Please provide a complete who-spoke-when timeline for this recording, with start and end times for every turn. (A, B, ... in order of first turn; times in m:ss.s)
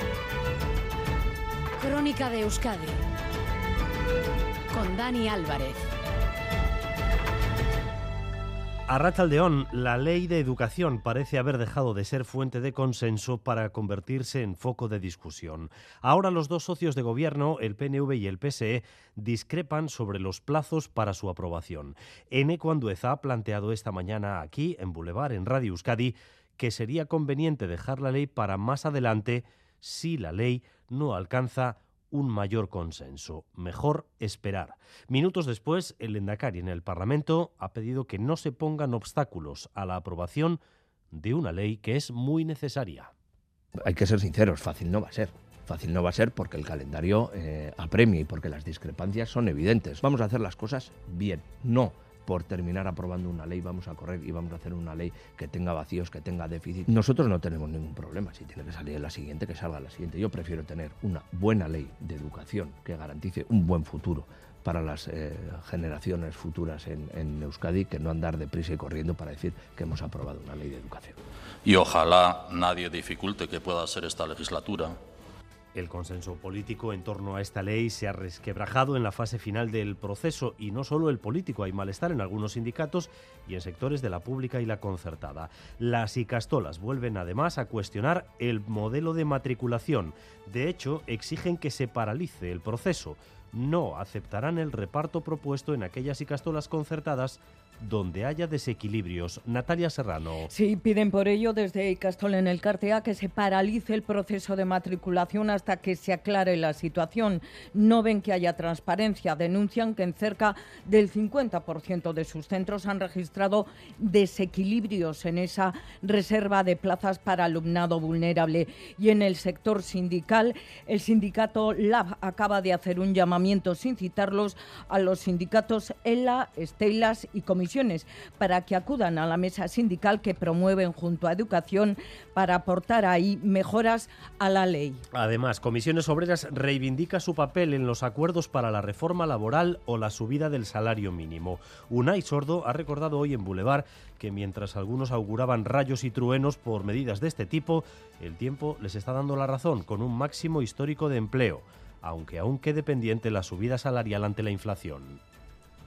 0:01.8-0:03.0 A
0:04.7-0:05.9 A
0:08.9-0:40.6 B
0:41.1-0:43.1 B
0:43.8-1:11.2 C
1:11.6-1:15.0 D
1:15.7-1:40.5 B
1:40.6-2:00.5 E
2:01.0-2:04.5 E
2:05.1-2:11.9 E
2:13.0-2:15.0 E
2:15.1-2:35.2 B